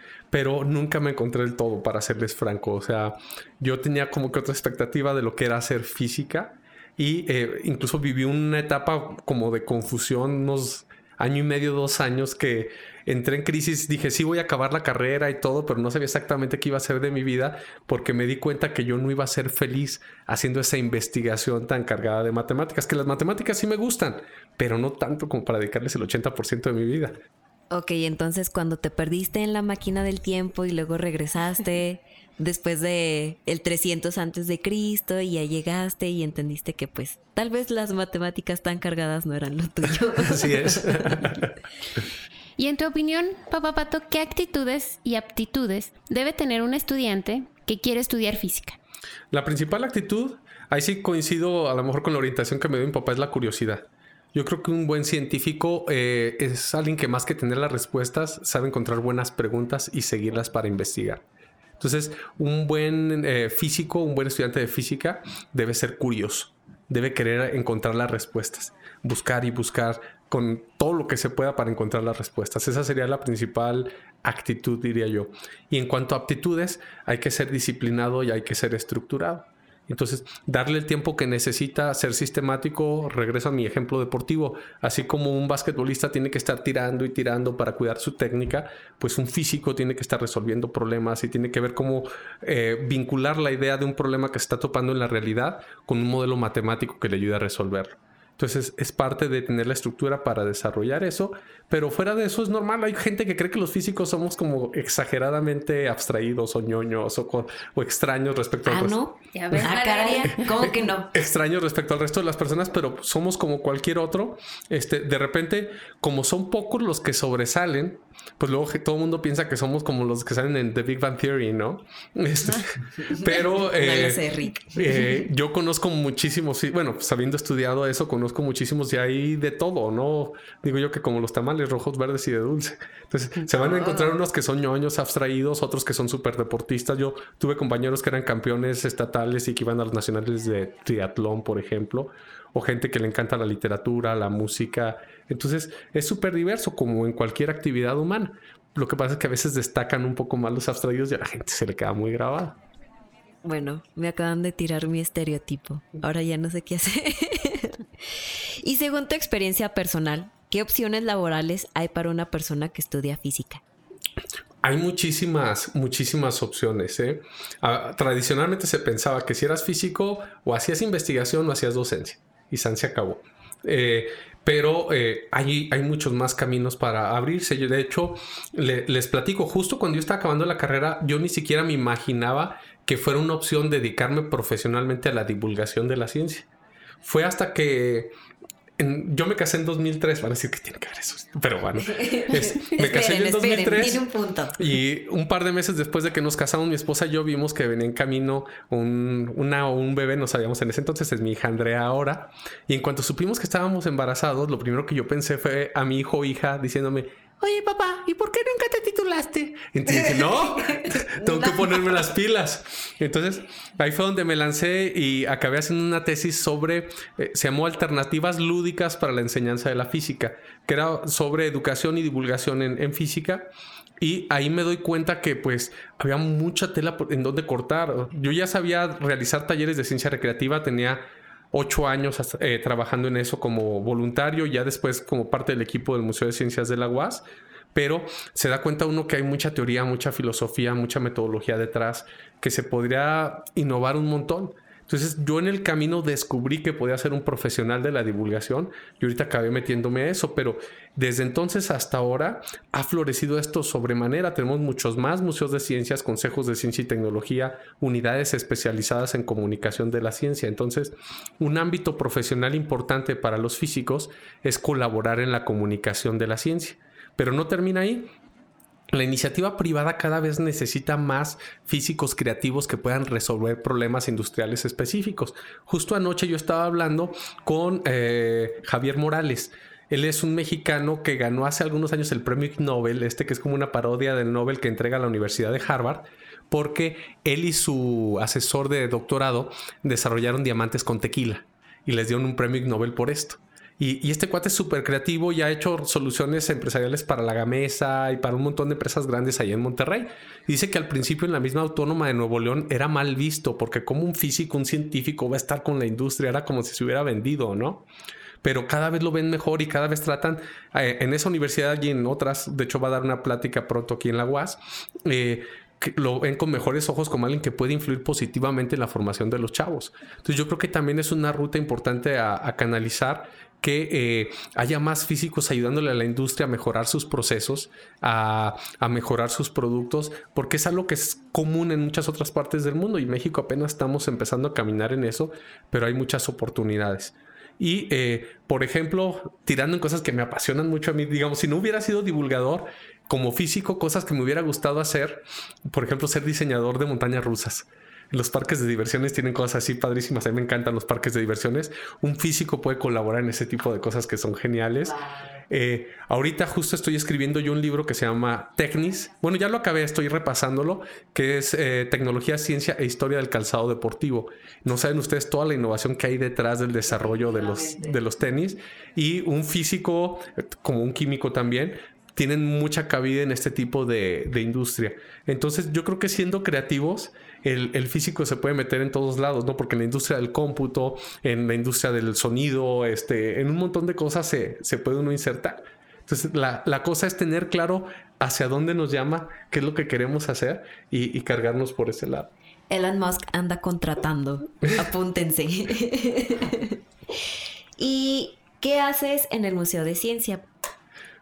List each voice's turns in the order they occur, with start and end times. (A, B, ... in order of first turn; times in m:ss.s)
0:00.3-0:27.2 A
0:27.7-0:41.4 B
0:40.2-0:41.5 A
0:42.6-0:48.8 C
0:49.3-1:01.2 A
1:01.8-1:49.0 A
1:48.7-1:51.1 B
1:49.3-1:50.7 C
1:50.6-2:32.6 A
2:03.1-2:05.2 B
2:13.5-2:14.1 B
2:33.4-2:43.6 B
2:44.6-3:06.5 A
3:07.0-3:08.1 A
3:08.8-3:14.0 A
3:11.8-3:14.8 B
3:14.6-3:43.5 A
3:29.9-3:32.0 B
3:44.0-4:28.1 A
4:28.9-5:07.9 A
5:08.4-6:32.3 A
6:07.5-6:07.9 B
6:32.7-6:36.8 B
6:37.8-6:40.4 B